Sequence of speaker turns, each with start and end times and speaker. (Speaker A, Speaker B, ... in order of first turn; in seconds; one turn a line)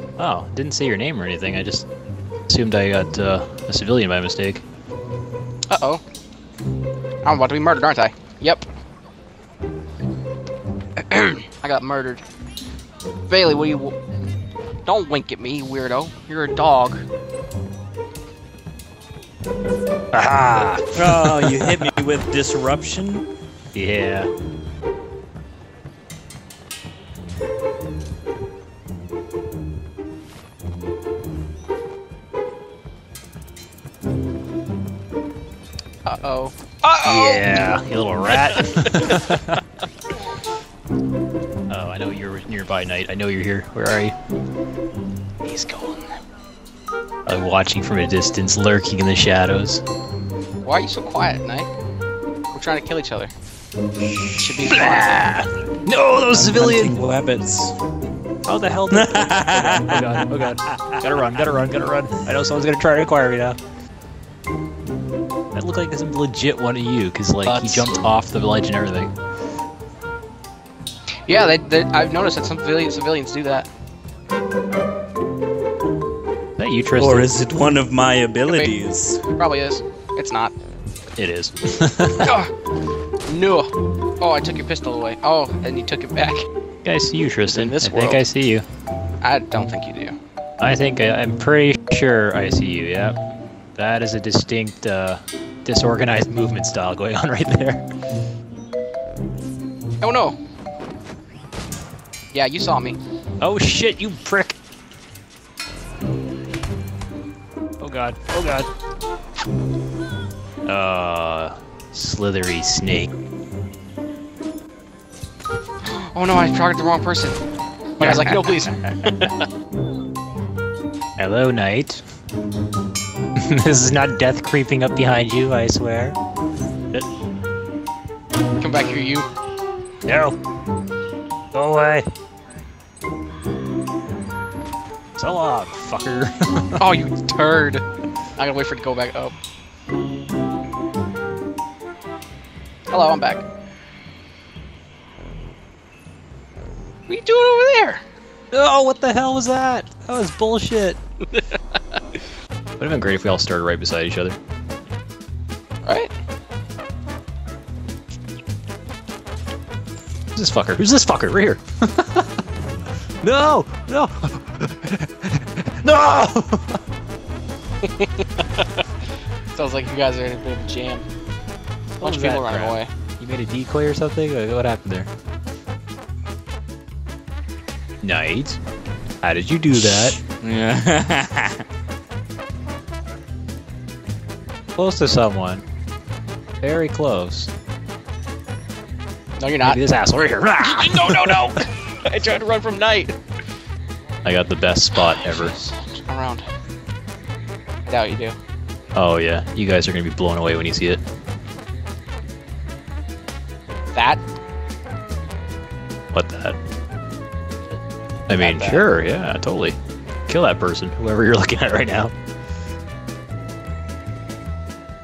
Speaker A: 0.2-1.9
Speaker A: 2.5-4.6
Speaker B: 5.7-6.0
Speaker B: 7.2-8.6
Speaker B: 11.0-12.2
Speaker B: 13.3-14.0
Speaker B: 14.9-17.0
Speaker A: 20.1-21.9
Speaker C: 20.9-23.3
Speaker A: 23.7-24.3
Speaker B: 36.0-37.8
Speaker A: 37.0-39.6
Speaker B: 38.3-39.5
Speaker A: 41.7-44.1
Speaker B: 45.4-46.2
Speaker A: 47.3-49.8
Speaker B: 50.6-51.7
Speaker B: 52.5-53.3
Speaker B: 54.4-55.3
Speaker A: 54.7-57.0
Speaker C: 56.4-57.8
Speaker A: 58.5-63.6
Speaker C: 58.9-61.0
Speaker A: 65.5-69.1
Speaker B: 67.5-68.0
Speaker B: 71.3-73.7
Speaker A: 76.6-77.3
Speaker C: 77.0-79.2
Speaker B: 78.5-78.8
Speaker B: 79.3-80.5
Speaker A: 81.2-82.4
Speaker B: 82.2-82.5
Speaker B: 83.3-86.5
Speaker A: 86.8-88.6
Speaker B: 87.5-88.2
Speaker B: 89.2-90.2
Speaker A: 90.6-93.2
Speaker A: 93.8-97.8
Speaker B: 100.0-100.4
Speaker B: 102.3-103.0
Speaker A: 103.4-104.5
Speaker A: 107.8-108.7
Speaker A: 110.7-113.1
Speaker B: 115.8-117.4
Speaker B: 118.0-119.4
Speaker A: 118.0-118.5
Speaker A: 121.2-122.0
Speaker A: 123.4-126.2
Speaker B: 128.6-129.3
Speaker A: 130.1-130.4
Speaker A: 131.5-132.1
Speaker A: 135.2-136.9
Speaker B: 136.8-137.8
Speaker B: 138.4-139.3
Speaker B: 142.9-143.4
Speaker B: 147.1-148.0
Speaker A: 148.5-151.0
Speaker A: 152.8-154.4
Speaker B: 155.8-156.1
Speaker A: 160.3-162.3
Speaker A: 163.2-166.8
Speaker B: 167.8-168.9
Speaker B: 169.5-171.1
Speaker A: 172.0-175.1
Speaker B: 172.0-172.9
Speaker A: 178.0-178.6
Speaker A: 179.2-180.2
Speaker C: 179.8-181.6
Speaker A: 184.8-185.7
Speaker A: 186.6-187.5
Speaker B: 189.4-189.8
Speaker A: 189.6-191.6
Speaker B: 190.6-193.1
Speaker A: 194.2-195.5
Speaker B: 194.9-196.5
Speaker B: 197.9-198.4
Speaker A: 198.9-201.0
Speaker B: 203.9-204.2
Speaker A: 206.1-206.6
Speaker A: 208.3-209.8
Speaker B: 208.3-208.9
Speaker A: 210.3-212.1